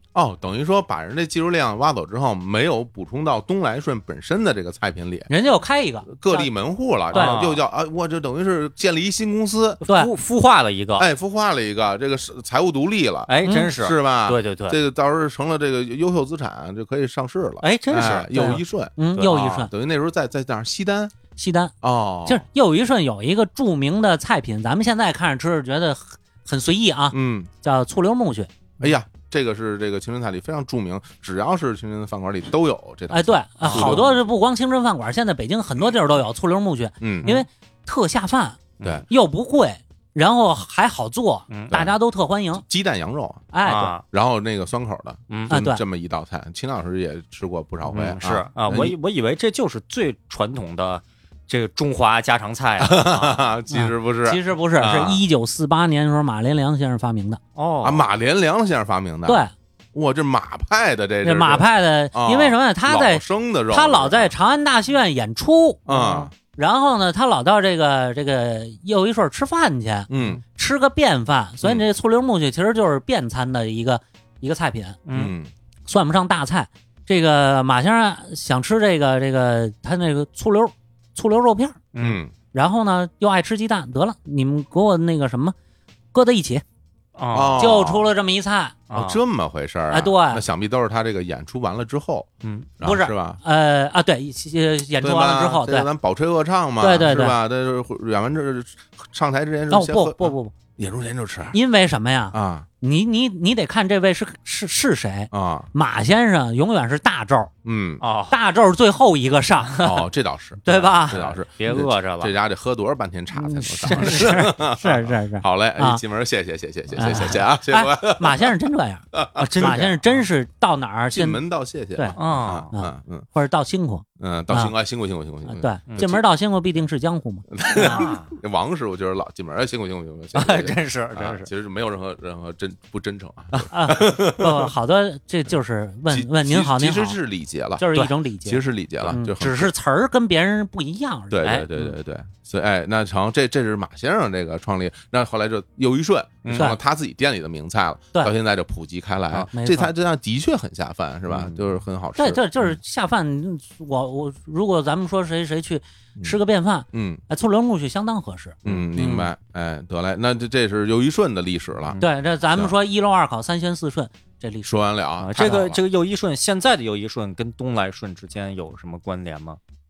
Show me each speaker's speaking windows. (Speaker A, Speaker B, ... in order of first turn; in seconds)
Speaker A: 0.1-5.3, 6.1-9.8, 11.0-21.1, 21.8-22.4, 27.1-27.5, 28.8-34.2, 37.0-37.3, 38.8-39.1, 41.7-42.0, 42.6-43.5, 44.0-49.0, 52.8-55.2, 57.8-59.4, 59.9-64.3, 65.9-66.3, 70.1-70.4, 75.1-75.5, 82.0-82.3, 87.3-88.1, 88.9-93.4, 95.0-101.6, 102.3-102.7, 105.3-105.7, 107.6-108.0, 109.8-118.5, 119.1-120.0, 121.1-123.3, 124.2-126.2, 127.5-134.7, 136.1-139.7, 141.3-152.4, 156.9-157.2, 158.7-162.0, 164.7-165.8
Speaker B: 5.3-6.5, 7.1-7.4, 9.8-10.1, 13.4-13.7, 19.0-19.7, 21.4-21.7, 22.3-28.5, 33.1-42.6, 43.5-44.0, 45.5-45.8, 53.7-57.4, 59.3-59.5, 61.2-65.8, 66.5-75.0, 75.9-81.8, 82.5-85.5, 86.1-86.6, 87.6-88.8, 89.9-90.5, 92.8-95.9, 96.8-97.4, 99.7-100.5, 101.5-107.5, 108.3-109.9, 110.6-111.2, 113.3-116.0, 117.0-119.1, 119.6-121.4, 122.7-124.7, 125.5-128.1, 133.7-137.2, 137.8-141.6, 146.5-146.8, 149.5-149.9, 152.2-159.2, 162.0-164.9
Speaker C: 7.1-7.6, 9.9-11.1, 13.3-14.8, 17.6-18.6, 33.6-34.0, 38.8-39.0, 41.5-41.8, 43.6-44.0, 45.3-45.6, 47.9-53.5, 57.6-58.0, 65.9-66.3, 75.1-75.3, 82.0-82.2, 87.2-87.8, 88.9-89.2, 92.4-92.7, 108.0-108.3, 111.1-112.3, 113.9-114.5, 119.4-120.2, 122.2-122.7, 127.8-128.3, 130.3-131.5, 141.4-141.7, 146.4-146.7, 151.3-151.6, 158.7-159.3, 165.2-169.6